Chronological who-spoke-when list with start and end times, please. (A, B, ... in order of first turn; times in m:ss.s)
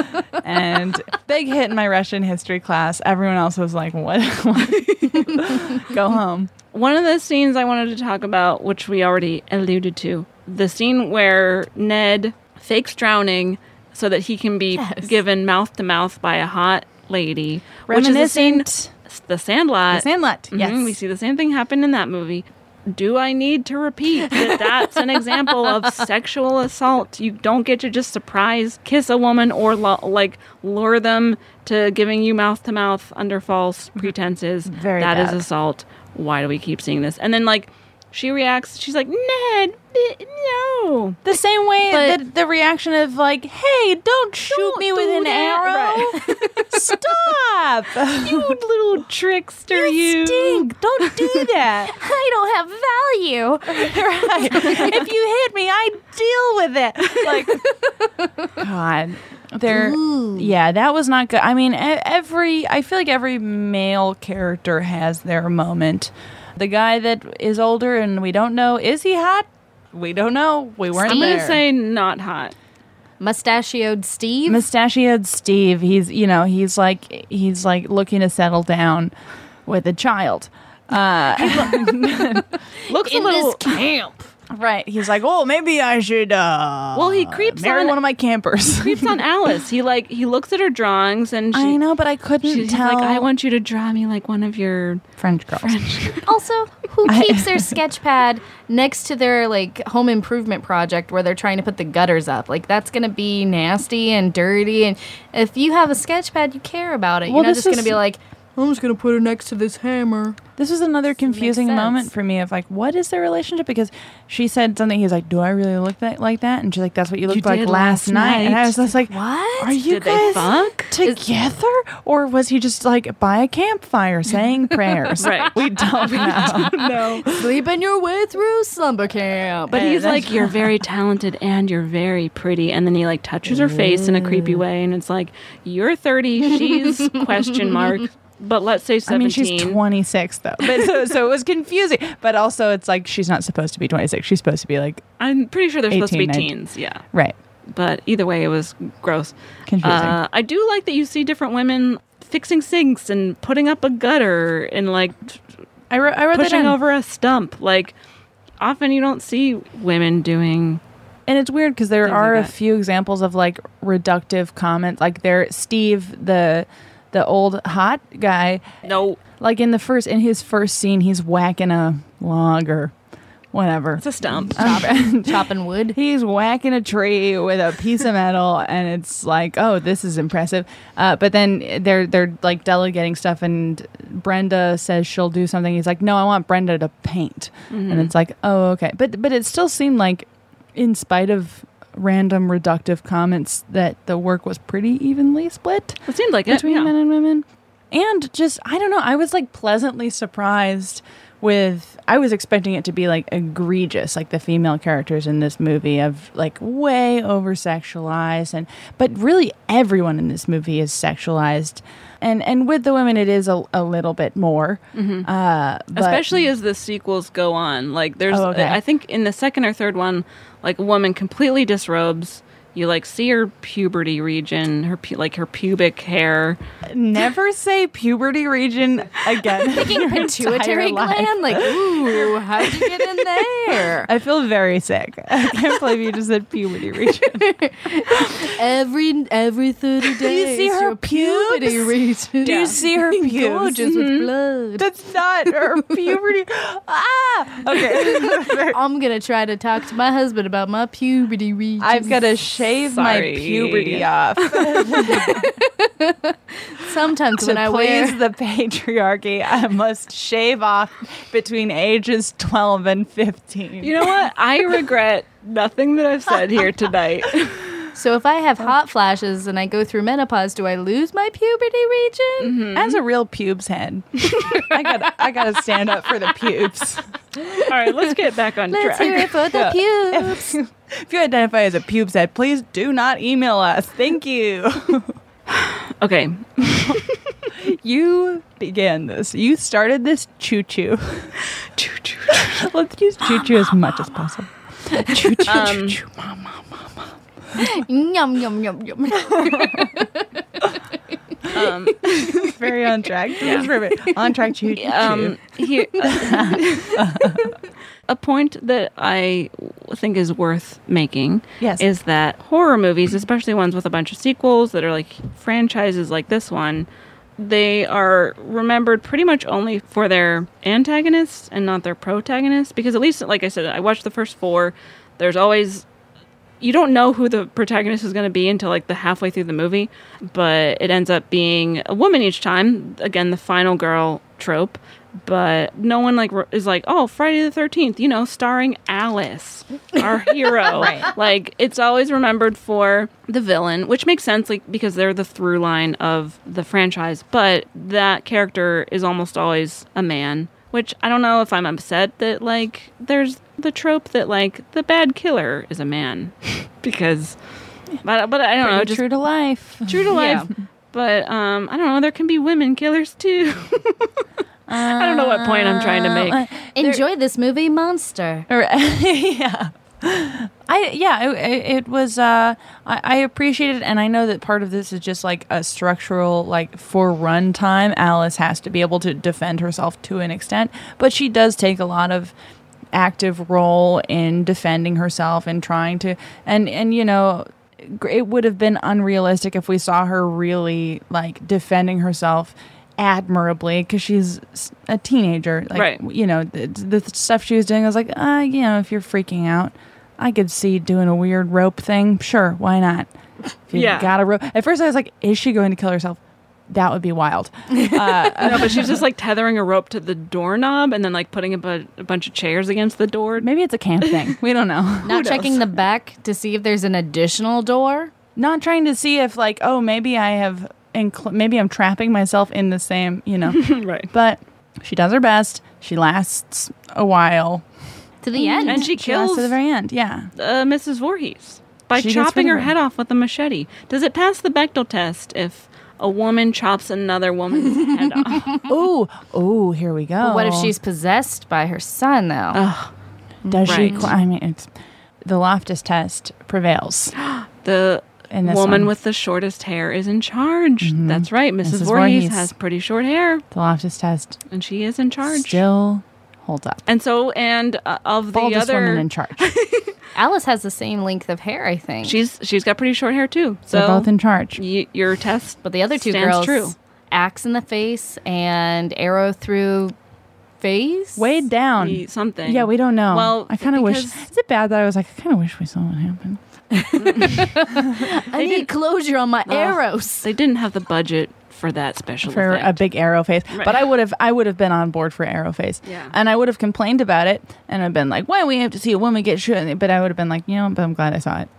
0:00.4-0:06.5 A
0:04.7-0:05.2 B
0:06.7-0:41.2 B
0:14.7-0:15.2 C
0:17.9-0:18.9 A
0:19.9-0:21.0 A
0:34.7-0:35.4 A
0:41.2-0:46.2 A
0:41.9-0:42.2 C
0:44.5-0:45.6 C
0:45.5-0:46.3 B
0:46.2-0:47.0 C
0:46.7-0:48.6 A
0:48.2-0:51.1 B
0:49.7-0:51.9 A
0:51.9-0:54.9 C
0:53.6-0:57.6 A
0:57.6-0:58.5 C
0:58.6-1:11.6 A
0:59.7-1:00.5 C
1:11.0-1:11.5 C
1:11.0-1:12.5 B
1:13.2-1:14.6 C
1:14.5-1:19.1 A
1:19.6-1:22.4 A
1:22.8-1:24.2 C
1:22.9-1:23.6 B
1:24.5-1:29.2 A
1:26.9-1:28.0 B
1:28.7-1:31.8 B
1:31.5-1:33.3 A
1:32.4-1:35.0 B
1:35.2-1:36.0 A
1:35.6-1:36.3 B
1:36.2-1:50.4 C
1:37.0-1:37.8 A
1:47.3-1:48.0 A
1:50.6-2:06.8 A
1:51.2-1:52.1 C
1:57.3-1:58.8 B
1:59.1-2:00.3 C
1:59.8-2:00.9 B
2:05.2-2:07.3 B
2:06.1-2:06.7 C
2:07.3-2:09.8 C
2:09.7-2:10.7 A
2:09.7-2:19.8 B
2:16.6-2:17.2 C
2:19.0-2:25.0 A
2:25.2-2:27.0 B
2:25.9-2:26.5 A
2:27.1-2:27.4 A
2:27.7-2:35.4 B
2:29.7-2:30.2 A
2:35.9-2:36.8 A
2:36.3-2:37.9 B
2:38.6-2:40.8 B
2:41.3-2:48.6 A
2:42.0-2:42.5 B
2:48.8-2:49.2 B
2:49.4-2:52.9 A
2:53.5-3:36.4 A
2:54.0-2:54.8 B
2:54.6-2:56.0 C
3:07.7-3:08.1 B
3:16.1-3:16.9 B
3:34.9-3:35.3 B
3:35.9-3:46.6 B
3:38.3-3:38.8 A
3:46.9-3:53.1 A
3:49.7-3:54.1 C
3:54.0-3:57.4 A
3:57.2-4:04.9 C
4:00.1-4:04.1 A
4:02.4-4:02.8 B
4:04.8-4:08.8 A
4:08.7-4:12.2 C
4:11.8-4:15.4 A
4:12.9-4:15.2 B
4:15.1-4:18.2 C
4:17.4-4:24.2 A
4:23.8-4:27.6 B
4:27.9-4:32.5 C
4:32.4-4:33.0 B
4:32.7-4:37.0 A
4:37.7-4:39.4 B
4:38.7-4:40.5 C
4:39.5-4:45.2 A
4:45.5-4:47.2 B
4:46.6-4:46.9 A
4:47.6-4:51.4 A
4:51.8-4:52.6 B
4:52.3-4:57.0 A
4:55.4-4:56.0 B
4:57.6-5:00.2 C
4:59.3-4:59.9 A
5:01.5-5:02.6 B
5:02.4-5:05.4 A
5:03.4-5:03.7 B
5:04.8-5:07.3 B
5:06.0-5:07.4 A
5:08.1-5:25.8 B
5:26.6-5:57.4 B
5:40.7-5:41.1 A
5:58.0-5:59.0 B
5:58.6-6:00.4 A
5:59.8-6:04.1 B
6:00.1-6:00.5 C
6:04.7-6:07.0 A
6:04.8-6:06.4 B
6:06.8-6:08.5 C
6:08.5-6:22.3 A
6:22.9-6:43.1 A
6:35.7-6:36.0 B
6:43.7-6:49.0 A
6:43.7-6:44.1 B
6:48.4-6:53.5 B
6:53.4-6:55.5 A
6:54.0-6:54.3 B
6:55.0-6:58.1 C
6:55.1-6:55.5 B
6:58.4-7:07.6 A
7:03.5-7:04.1 B
7:08.2-7:08.8 C
7:08.3-7:10.3 A
7:08.6-7:09.6 B
7:10.4-7:18.5 B
7:11.9-7:12.7 A
7:18.7-7:20.7 A
7:20.2-7:22.6 C
7:22.5-7:22.9 B
7:23.4-7:24.0 C
7:23.5-7:24.7 A
7:23.6-7:24.1 B
7:25.2-7:27.1 A
7:27.2-7:33.4 B
7:28.3-7:28.9 A
7:30.8-7:32.5 A
7:33.5-7:34.4 A
7:34.5-7:35.6 B
7:35.2-7:36.8 A
7:36.9-7:39.9 B
7:38.3-7:39.5 A
7:40.1-7:42.2 C
7:42.0-7:46.7 B
7:43.7-7:44.6 A
7:45.6-7:49.9 C
7:50.6-7:51.3 C
7:51.2-7:56.4 A
7:51.8-7:54.2 B
7:56.7-8:00.3 C
7:57.0-7:57.6 B
7:58.3-7:58.7 B
7:59.5-8:02.8 B
8:02.2-8:11.5 A
8:03.5-8:03.8 B
8:05.8-8:06.1 B